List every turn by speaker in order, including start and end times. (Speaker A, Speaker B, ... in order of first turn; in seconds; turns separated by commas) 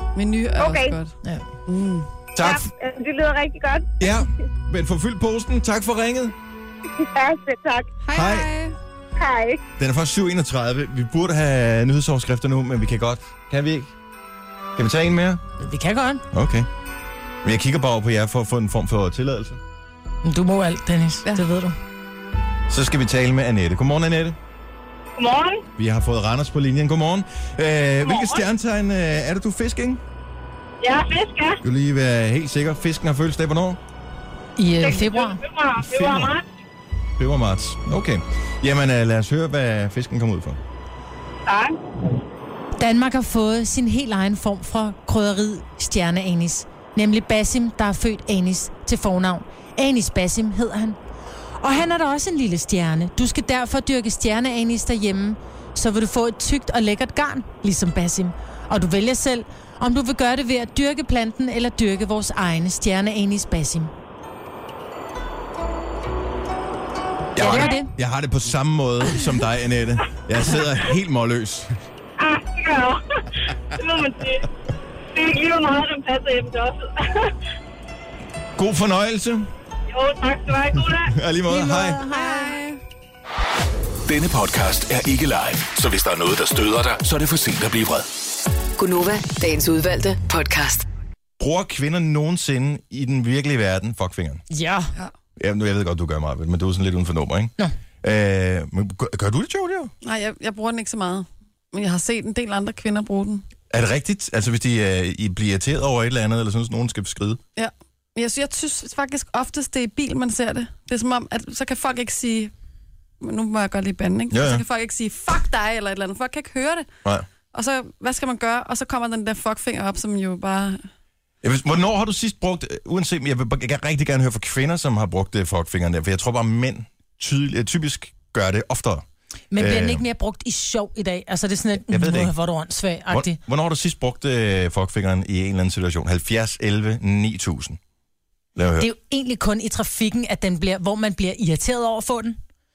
Speaker A: 0.1-1.2, Speaker B: 0.6-0.9, Speaker A: 1.7-2.1, Speaker C: 2.4-2.7, Speaker B: 2.4-3.9, Speaker C: 4.0-6.3, Speaker B: 7.1-7.9, Speaker A: 8.0-8.8, Speaker C: 8.1-8.5, Speaker B: 9.2-9.6, Speaker C: 9.8-13.9, Speaker C: 14.8-15.4, Speaker D: 15.6-16.2, Speaker C: 16.3-16.7, Speaker C: 17.4-19.6, Speaker D: 20.2-21.8, Speaker C: 22.7-24.4, Speaker E: 25.2-25.6, Speaker C: 25.8-30.0, Speaker E: 28.0-28.5, Speaker E: 30.8-31.6, Speaker C: 31.6-33.8, Speaker D: 34.6-35.4, Speaker E: 34.8-36.4, Speaker C: 35.8-36.4, Speaker C: 37.2-40.6, Speaker E: 41.5-41.7, Speaker D: 42.8-51.0, Speaker D: 51.6-63.9, Speaker C: 67.3-71.8, Speaker D: 67.4-67.9, Speaker E: 72.2-73.0, Speaker E: 73.7-74.5, Speaker E: 75.1-77.3, Speaker C: 78.6-79.5, Speaker E: 79.9-81.2, Speaker C: 81.0-82.0, Speaker D: 81.5-82.5, Speaker A: 82.0-82.8, Speaker F: 84.1-88.1, Speaker G: 88.8-90.9, Speaker C: 91.4-94.4, Speaker D: 94.5-94.9, Speaker C: 95.4-99.9, Speaker A: 100.0-103.5, Speaker C: 103.7-107.4, Speaker A: 107.6-112.5, Speaker A: 113.2-116.9, Speaker C: 114.3-114.7, Speaker A: 117.5-120.8, Speaker C: 121.4-130.0, Speaker D: 129.5-133.4, Speaker C: 131.9-132.3, Speaker C: 133.1-137.8, Speaker C: 138.6-138.9, Speaker D: 138.8-142.4